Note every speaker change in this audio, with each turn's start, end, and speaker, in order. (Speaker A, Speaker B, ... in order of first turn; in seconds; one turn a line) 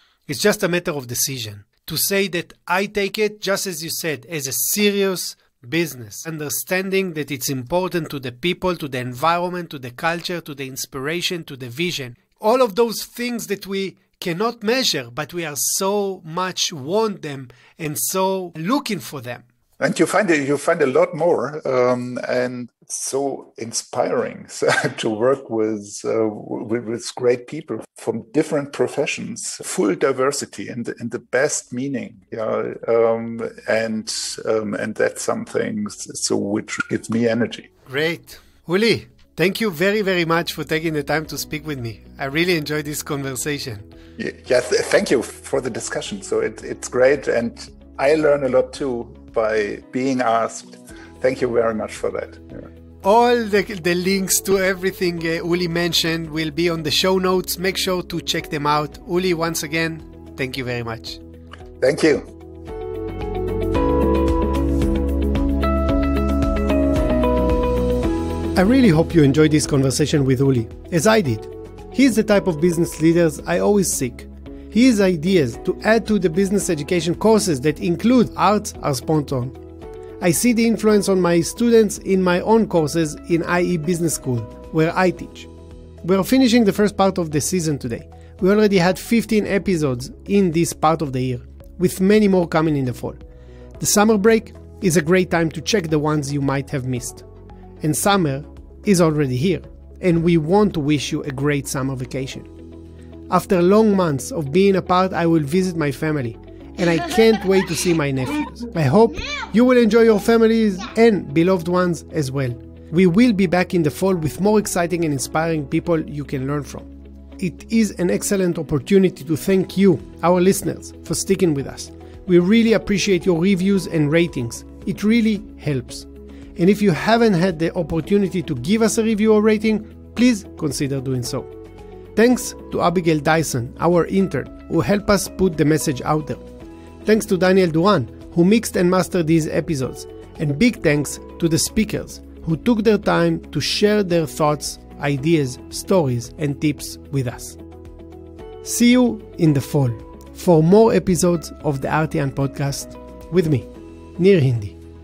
Speaker A: 0.3-19.4
Speaker B: 19.8-37.7
Speaker A: 37.9-43.9
Speaker B: 44.2-52.7
Speaker A: 53.0-61.2
Speaker B: 61.8-62.3
Speaker A: 68.6-79.6
Speaker A: 80.2-85.5
Speaker A: 86.0-93.2
Speaker A: 93.8-97.2
Speaker A: 97.8-102.5
Speaker A: 103.3-131.5
Speaker A: 132.2-136.4
Speaker A: 137.1-147.6
Speaker A: 148.6-154.8